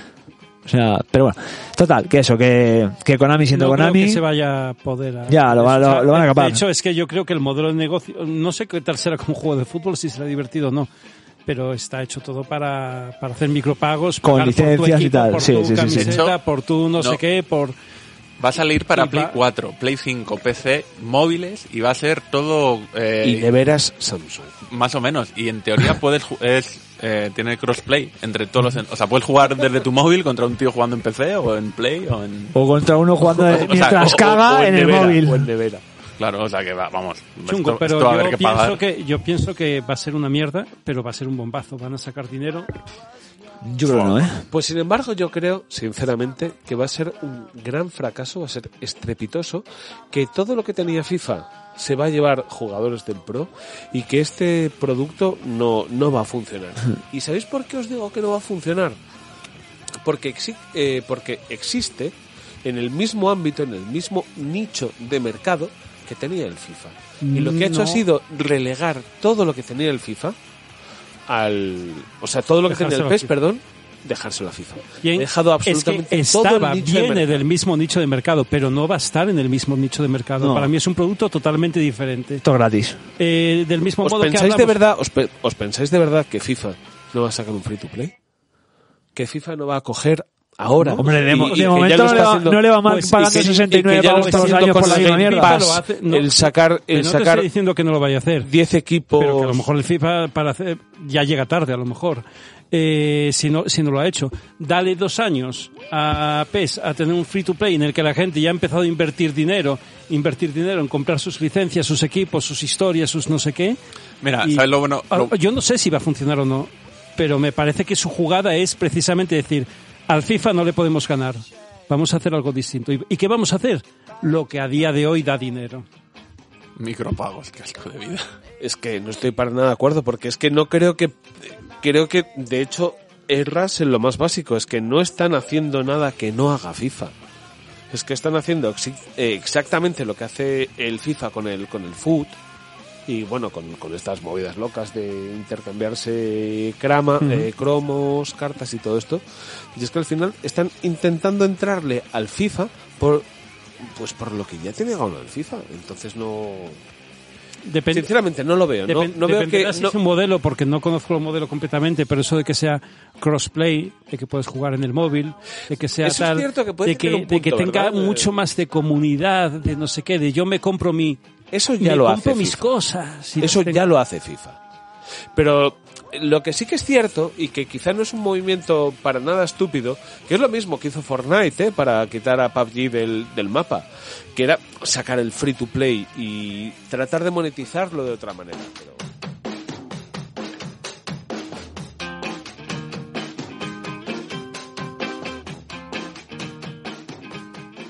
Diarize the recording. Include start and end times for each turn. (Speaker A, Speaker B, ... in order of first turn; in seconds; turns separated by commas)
Speaker A: 0.6-4.2, Speaker B: 3.5-10.9, Speaker A: 5.3-6.6, Speaker B: 11.4-17.7, Speaker A: 14.2-16.2, Speaker C: 15.9-16.4, Speaker C: 18.4-23.5, Speaker B: 18.9-19.4, Speaker D: 23.2-24.5, Speaker C: 24.7-32.5, Speaker A: 32.5-35.5, Speaker D: 33.2-35.8, Speaker C: 33.4-34.2, Speaker C: 36.2-38.8, Speaker B: 37.5-42.7, Speaker A: 43.6-44.4, Speaker D: 43.9-59.0, Speaker D: 60.0-70.3, Speaker B: 67.2-68.0, Speaker D: 71.3-77.4, Speaker B: 72.7-73.3, Speaker B: 75.0-82.4, Speaker A: 80.4-80.7, Speaker A: 82.4-83.0, Speaker B: 83.2-84.8, Speaker D: 84.0-88.1, Speaker D: 89.1-97.5, Speaker B: 90.8-92.3, Speaker A: 91.0-95.6, Speaker B: 92.8-98.5, Speaker D: 98.4-99.6, Speaker B: 99.2-113.8, Speaker C: 114.2-115.3, Speaker B: 114.4-125.8, Speaker C: 126.8-128.3, Speaker D: 128.6-137.1, Speaker D: 137.9-142.4, Speaker D: 143.1-149.2, Speaker D: 149.7-153.3, Speaker D: 153.8-156.8, Speaker B: 157.6-158.1, Speaker D: 157.9-160.0, Speaker B: 158.9-171.2, Speaker D: 166.0-168.3, Speaker D: 171.5-172.7, Speaker B: 171.8-173.8, Speaker D: 173.4-174.6, Speaker D: 175.3-189.0